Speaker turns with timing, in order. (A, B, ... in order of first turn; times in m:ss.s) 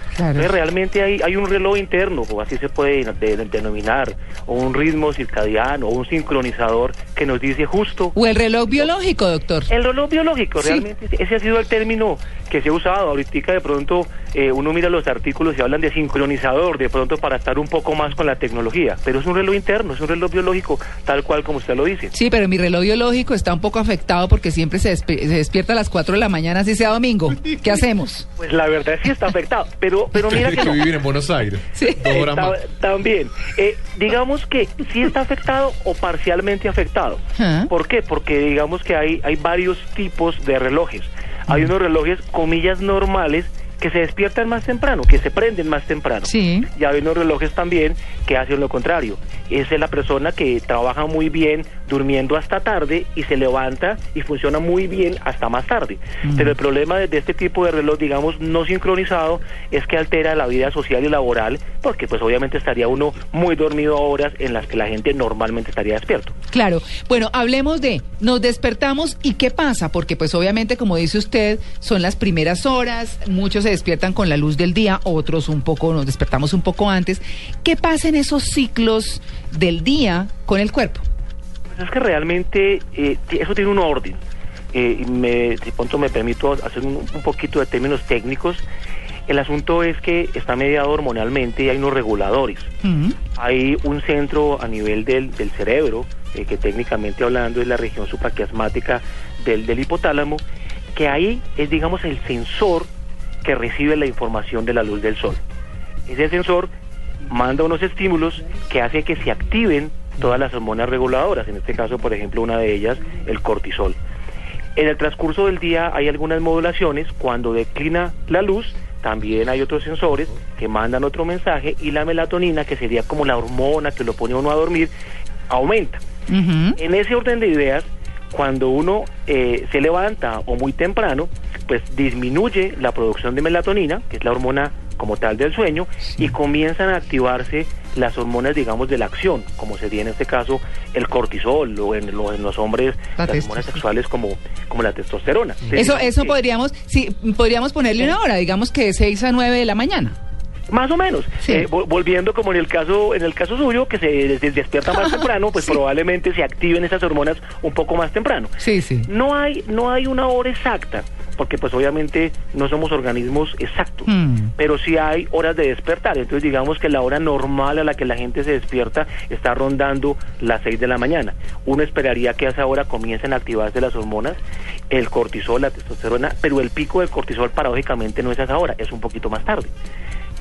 0:00.2-0:00.5 A
0:00.3-0:08.2 B
0:08.2-0:09.7 A
0:09.7-0:22.1 B
0:10.6-0:10.9 A
0:22.1-0:28.3 A
0:28.4-0:30.9 B
0:30.2-0:32.6 C
0:31.7-0:32.1 A
0:32.0-1:06.3 B
0:37.4-0:37.7 A
0:46.2-0:46.7 A
0:56.2-0:56.6 A
1:06.5-1:21.0 A
1:21.7-1:24.2 B
1:24.7-1:28.6 B
1:29.3-1:32.7 B
1:32.8-1:33.2 A
1:33.4-1:40.4 B
1:40.9-1:42.9 B
1:43.4-1:45.4 B
1:46.1-1:46.7 B
1:47.3-1:54.0 B
1:54.7-2:04.9 B
2:05.5-2:06.0 B
2:06.3-2:06.8 A
2:06.8-2:26.3 B
2:23.2-2:23.8 A
2:25.7-2:30.2 A
2:30.7-2:38.5 B
2:31.4-2:31.7 A
2:34.9-2:35.3 A
2:38.6-2:39.1 A
2:39.0-2:59.7 B
2:44.1-2:44.5 A